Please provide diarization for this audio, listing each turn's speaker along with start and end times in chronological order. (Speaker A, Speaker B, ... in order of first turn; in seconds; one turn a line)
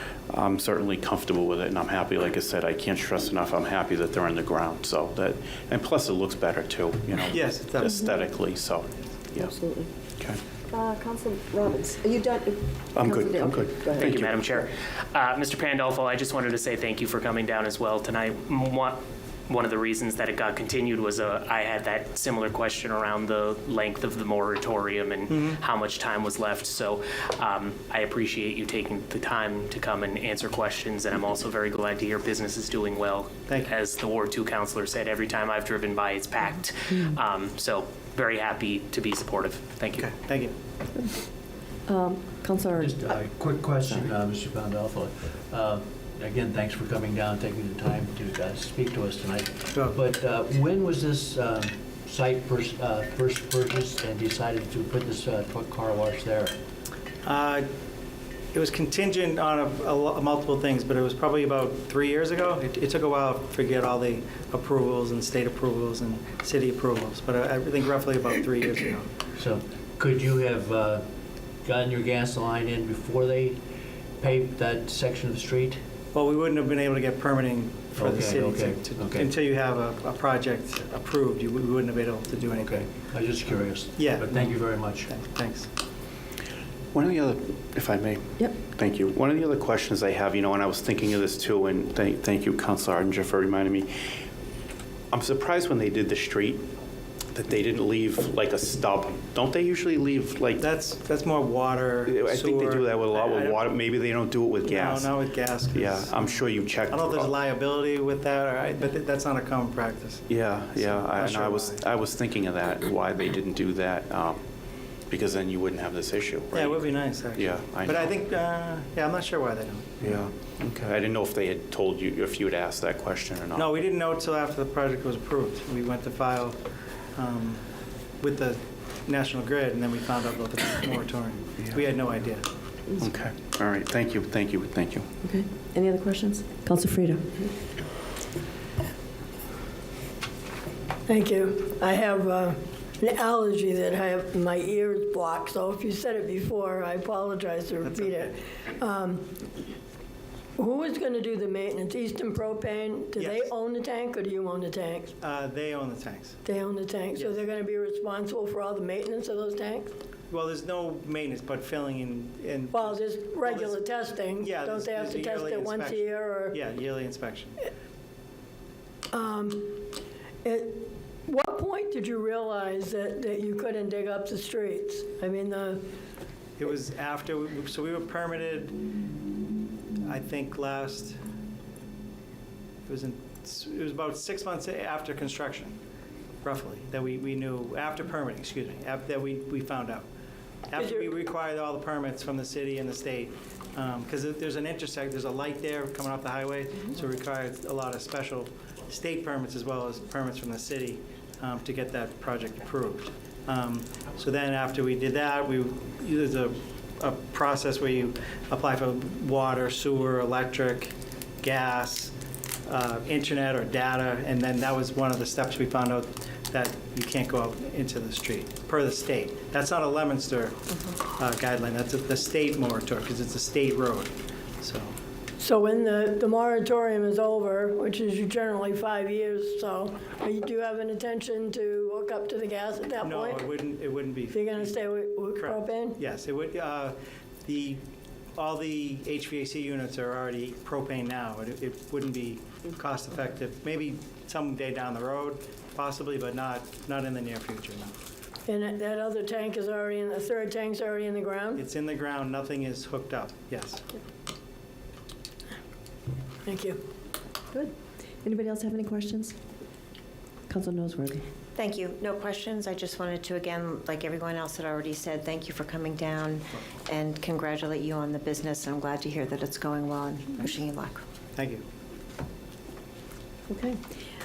Speaker A: 0.3-9.6
Speaker B: 7.3-8.0
Speaker C: 9.4-9.8
Speaker D: 10.7-11.9
Speaker A: 12.9-14.5
Speaker E: 13.9-40.1
Speaker D: 36.9-37.1
Speaker B: 39.9-40.5
Speaker D: 41.9-43.2
Speaker C: 42.8-56.5
Speaker D: 43.9-44.1
Speaker B: 57.2-57.7
Speaker B: 58.5-69.1
Speaker C: 69.4-71.0
Speaker C: 71.6-73.6
Speaker C: 74.2-75.8
Speaker B: 76.1-82.8
Speaker C: 78.0-79.3
Speaker C: 82.6-85.1
Speaker B: 84.0-85.7
Speaker A: 86.9-93.9
Speaker A: 95.1-96.6
Speaker A: 97.3-100.6
Speaker B: 100.6-103.6
Speaker A: 102.1-105.2
Speaker B: 104.6-111.8
Speaker A: 105.7-107.3
Speaker A: 110.3-114.4
Speaker A: 115.1-118.2
Speaker B: 116.5-120.2
Speaker A: 120.0-123.7
Speaker B: 123.6-126.6
Speaker B: 127.2-127.7
Speaker B: 128.2-132.4
Speaker A: 133.0-135.1
Speaker D: 135.2-137.5
Speaker F: 141.1-149.4
Speaker B: 147.8-148.3
Speaker F: 150.6-155.2
Speaker B: 153.2-153.5
Speaker B: 155.2-156.4
Speaker F: 156.4-159.9
Speaker B: 157.1-157.5
Speaker B: 160.3-167.6
Speaker F: 162.7-166.6
Speaker F: 169.1-169.9
Speaker F: 170.4-175.9
Speaker B: 176.6-178.8
Speaker B: 180.0-181.2
Speaker B: 182.9-185.8
Speaker B: 186.4-190.1
Speaker B: 190.7-212.2
Speaker F: 190.8-191.1
Speaker B: 212.7-220.6
Speaker B: 221.1-224.9
Speaker F: 225.4-233.5
Speaker B: 233.0-237.8
Speaker F: 234.3-236.0
Speaker B: 238.3-247.9
Speaker F: 248.5-251.6
Speaker B: 251.6-253.8
Speaker F: 256.4-256.8
Speaker D: 258.2-259.4
Speaker D: 260.5-261.2
Speaker G: 261.6-271.0
Speaker B: 271.4-271.6
Speaker D: 273.5-273.8